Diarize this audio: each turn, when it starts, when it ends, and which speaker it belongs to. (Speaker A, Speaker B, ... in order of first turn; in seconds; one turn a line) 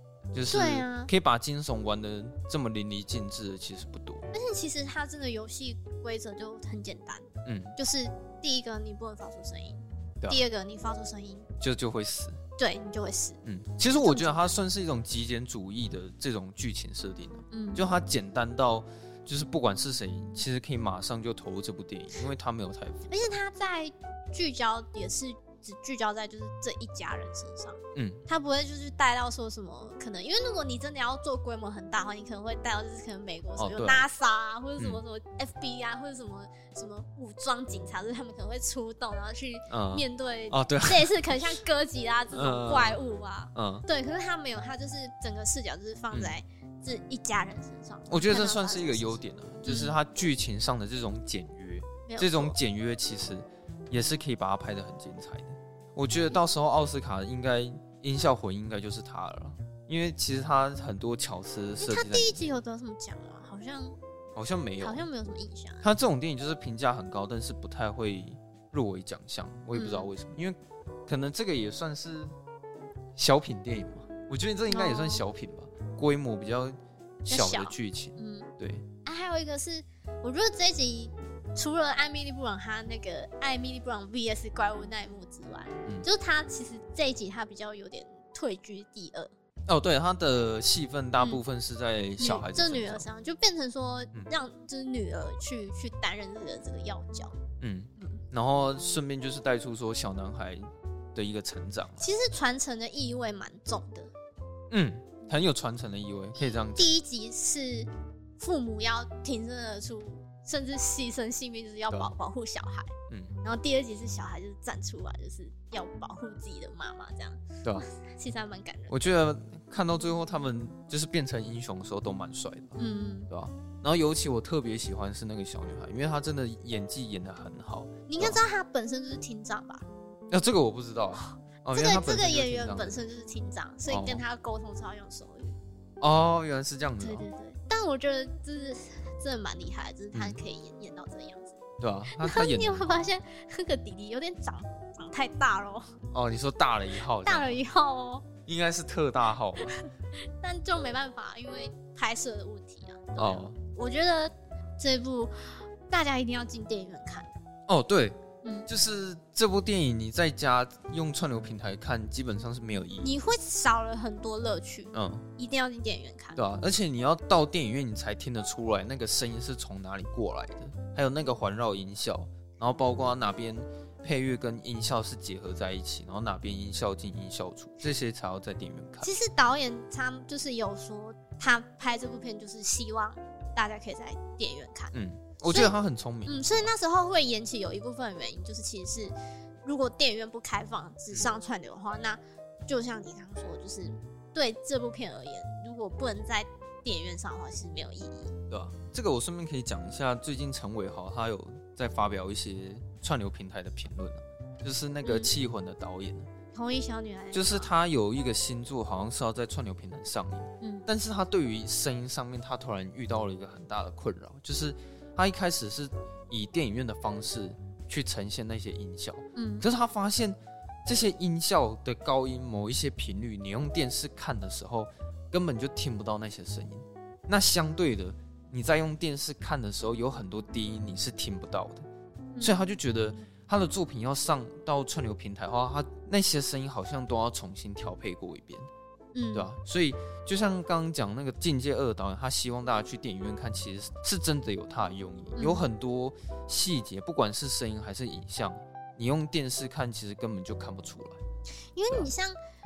Speaker A: 0.3-4.3
Speaker B: 0.5-1.1
Speaker B: 4.3-11.5
Speaker A: 7.5-7.8
Speaker A: 11.6-12.4
Speaker B: 12.6-13.4
Speaker A: 13.4-23.1
Speaker B: 14.0-14.5
Speaker B: 17.5-17.8
Speaker B: 23.1-50.0
Speaker A: 27.9-28.2
Speaker A: 33.6-34.0
Speaker A: 39.7-41.4
Speaker A: 42.3-43.0
Speaker A: 43.5-43.9
Speaker A: 46.1-46.4
Speaker A: 48.1-62.5
Speaker B: 52.1-52.6
Speaker B: 61.8-64.0
Speaker A: 64.4-65.1
Speaker B: 64.8-65.8
Speaker A: 65.8-72.3
Speaker B: 69.7-70.1
Speaker A: 73.2-78.9
Speaker B: 74.7-75.2
Speaker B: 77.3-78.5
Speaker B: 79.0-89.3
Speaker A: 89.7-93.1
Speaker B: 92.2-97.4
Speaker A: 97.6-102.1
Speaker B: 102.0-104.1
Speaker A: 104.7-106.9
Speaker B: 106.4-112.9
Speaker B: 113.4-119.0
Speaker A: 118.9-122.8
Speaker B: 122.8-123.3
Speaker A: 123.3-128.4
Speaker B: 128.1-129.9
Speaker A: 130.3-133.0
Speaker B: 131.3-135.6
Speaker A: 133.9-134.2
Speaker A: 136.0-137.3
Speaker B: 137.0-141.6
Speaker A: 140.1-140.4
Speaker A: 141.8-143.1
Speaker B: 142.1-145.9
Speaker A: 146.1-147.6
Speaker B: 147.2-148.3
Speaker A: 148.4-149.8
Speaker B: 150.4-157.4
Speaker A: 153.2-153.6
Speaker A: 157.7-163.2
Speaker B: 163.0-166.4
Speaker A: 164.9-165.3
Speaker A: 166.3-179.1
Speaker B: 179.0-184.9
Speaker A: 184.9-186.7
Speaker B: 185.5-185.7
Speaker B: 186.3-198.4
Speaker A: 198.5-206.3
Speaker B: 205.0-205.3
Speaker B: 206.5-207.7
Speaker A: 207.3-231.9
Speaker B: 210.6-210.9
Speaker B: 219.4-219.7
Speaker A: 232.4-238.7
Speaker B: 239.1-239.5
Speaker A: 239.3-251.2
Speaker B: 245.4-245.7
Speaker B: 251.8-252.4